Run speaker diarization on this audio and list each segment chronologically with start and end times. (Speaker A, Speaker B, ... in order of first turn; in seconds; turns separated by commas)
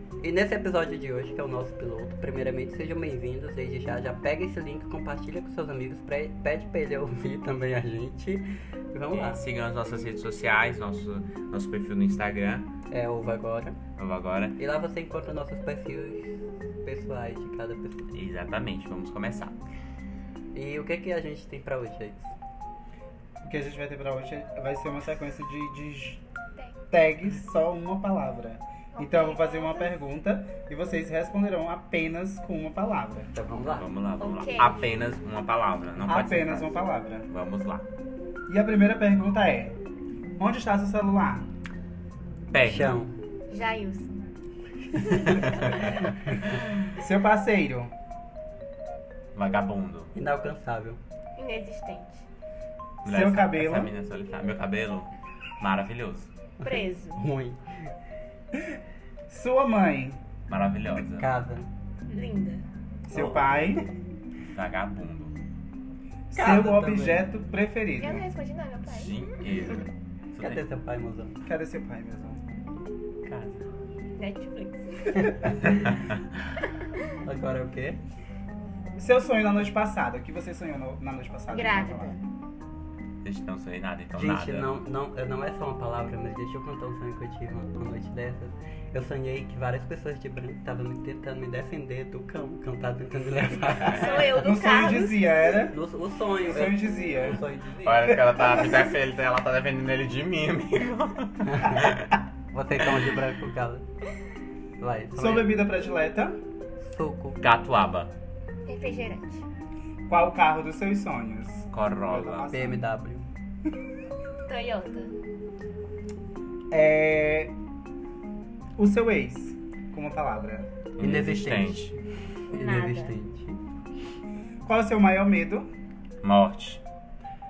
Speaker A: 0.2-9.4, Speaker B: 9.1-12.7, Speaker A: 12.9-13.8, Speaker B: 14.0-14.6, Speaker A: 14.6-18.0, Speaker B: 18.1-19.6, Speaker A: 20.5-22.3, Speaker C: 23.4-26.2, Speaker C: 26.9-33.3, Speaker D: 28.9-29.9, Speaker A: 33.3-33.9, Speaker B: 33.6-37.9, Speaker D: 34.2-34.9, Speaker C: 36.0-37.3, Speaker C: 38.5-39.8, Speaker C: 40.4-41.5, Speaker B: 42.5-43.0, Speaker A: 42.6-43.1, Speaker D: 43.5-44.2, Speaker A: 45.0-46.4, Speaker D: 45.3-45.9, Speaker C: 46.9-47.9, Speaker B: 49.4-50.1, Speaker A: 50.1-51.0, Speaker D: 51.4-52.2, Speaker B: 53.0-56.3, Speaker C: 53.0-53.9, Speaker D: 56.6-57.3, Speaker A: 56.7-57.6, Speaker C: 59.3-60.2, Speaker B: 60.5-61.3, Speaker A: 61.0-61.7, Speaker D: 62.1-62.6, Speaker C: 63.1-63.9, Speaker A: 63.1-63.8, Speaker B: 64.5-65.3, Speaker C: 66.3-68.3, Speaker A: 66.3-67.3, Speaker D: 68.0-69.3, Speaker B: 68.9-70.6, Speaker A: 70.4-71.4, Speaker C: 71.5-72.4, Speaker A: 73.3-73.6, Speaker D: 74.2-75.6, Speaker A: 77.2-78.0, Speaker C: 79.0-82.2, Speaker D: 81.5-82.2, Speaker B: 83.2-84.8, Speaker A: 84.2-94.4, Speaker B: 93.8-94.3, Speaker D: 93.9-95.4, Speaker C: 94.3-95.8, Speaker A: 95.7-98.1, Speaker C: 96.4-97.4, Speaker B: 97.8-102.1, Speaker C: 98.1-98.8, Speaker A: 101.5-101.8, Speaker A: 102.5-103.8, Speaker A: 104.8-105.5, Speaker C: 105.2-106.4, Speaker A: 106.8-107.4, Speaker B: 107.4-108.1, Speaker D: 108.7-109.5, Speaker C: 110.1-112.8, Speaker B: 111.7-112.5, Speaker A: 112.5-113.3, Speaker D: 114.5-115.2, Speaker C: 116.7-117.5, Speaker C: 118.8-120.7, Speaker B: 121.0-122.0, Speaker A: 121.0-122.0, Speaker D: 122.5-123.2, Speaker A: 122.5-123.6, Speaker C: 124.7-125.7, Speaker B: 126.2-126.8